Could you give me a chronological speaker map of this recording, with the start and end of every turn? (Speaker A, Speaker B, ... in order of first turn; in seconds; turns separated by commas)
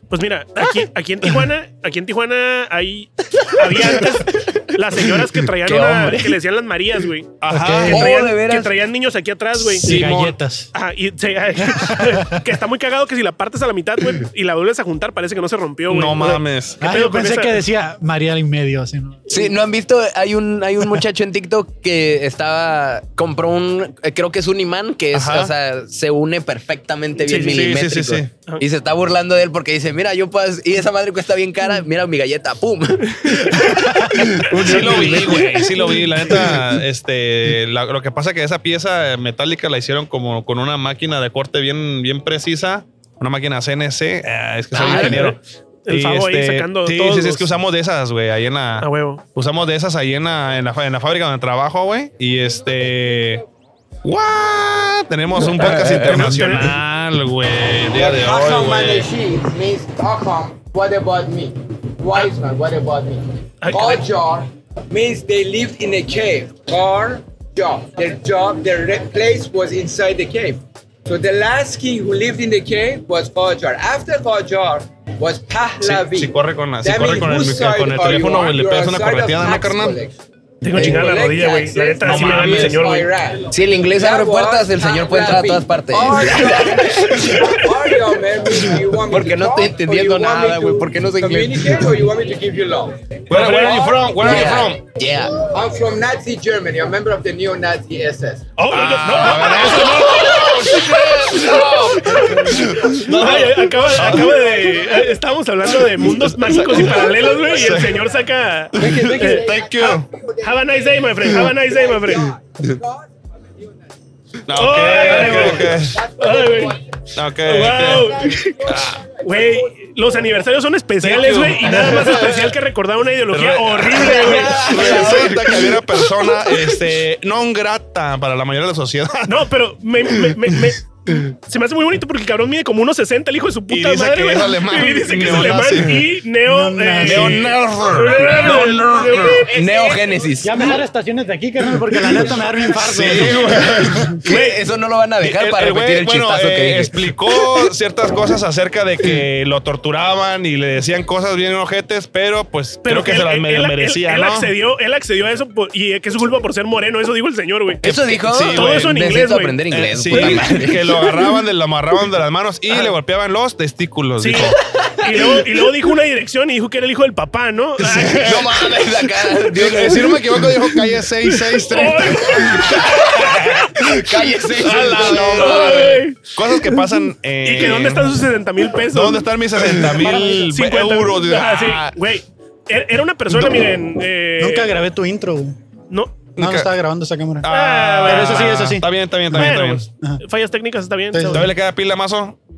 Speaker A: 0.1-7.3, Speaker B: 5.6-6.3, Speaker C: 7.4-8.0, Speaker D: 7.5-8.1, Speaker A: 7.9-9.9, Speaker B: 7.9-8.7, Speaker C: 9.8-10.3, Speaker D: 9.8-10.7, Speaker A: 10.7-17.6, Speaker D: 11.8-12.4, Speaker C: 15.9-16.8, Speaker D: 16.8-19.5, Speaker B: 19.3-35.5, Speaker C: 25.1-25.5, Speaker A: 27.3-27.6, Speaker C: 27.3-28.3, Speaker C: 34.4-53.4, Speaker A: 34.6-35.6, Speaker B: 44.7-45.2, Speaker A: 44.8-47.5, Speaker A: 48.8-49.2, Speaker C: 54.0-59.1, Speaker B: 55.6-56.1, Speaker A: 56.1-56.8, Speaker E: 57.9-80.2, Speaker A: 63.6-64.0, Speaker C: 75.8-80.0, Speaker A: 80.6-83.1, Speaker E: 80.7-93.9, Speaker C: 82.0-82.8, Speaker B: 82.1-82.6, Speaker B: 83.5-87.5, Speaker B: 89.1-91.9, Speaker C: 93.3-94.8, Speaker A: 93.3-94.0, Speaker B: 94.2-95.4, Speaker E: 95.4-98.5, Speaker A: 98.6-109.5, Speaker C: 98.7-104.5, Speaker E: 101.3-102.0, Speaker E: 104.3-105.0, Speaker C: 106.0-108.1, Speaker C: 108.8-110.1, Speaker E: 108.8-113.1, Speaker A: 110.4-112.3, Speaker C: 114.5-116.0, Speaker A: 114.5-116.8, Speaker E: 114.8-116.8, Speaker C: 117.2-118.2, Speaker A: 117.4-118.7, Speaker E: 118.3-119.9, Speaker C: 118.7-119.0, Speaker A: 119.2-125.8, Speaker C: 121.0-122.5, Speaker C: 123.3-129.5, Speaker B: 124.0-125.4, Speaker A: 129.3-140.1, Speaker C: 133.7-136.1, Speaker D: 136.5-137.5, Speaker C: 137.0-138.8, Speaker B: 138.1-140.7, Speaker D: 140.4-144.2, Speaker C: 142.8-144.2, Speaker B: 144.2-147.0, Speaker A: 144.3-144.5, Speaker C: 145.2-154.5, Speaker A: 152.8-160.6, Speaker B: 157.8-161.0, Speaker C: 157.9-159.0, Speaker C: 159.7-164.6, Speaker A: 164.2-168.5, Speaker B: 164.9-165.4, Speaker B: 168.0-170.5, Speaker C: 168.0-168.7, Speaker C: 169.2-172.7, Speaker A: 171.4-172.9, Speaker B: 172.5-176.0, Speaker C: 174.6-178.2, Speaker A: 174.6-176.8, Speaker A: 177.4-184.8, Speaker C: 178.9-182.0, Speaker D: 180.0-180.5, Speaker D: 184.4-185.6, Speaker A: 185.9-186.3, Speaker C: 186.4-186.7, Speaker D: 186.4-187.5, Speaker C: 187.4-189.9, Speaker A: 187.5-188.7, Speaker D: 188.0-190.2, Speaker A: 189.3-191.5, Speaker D: 191.1-191.5, Speaker C: 191.3-192.4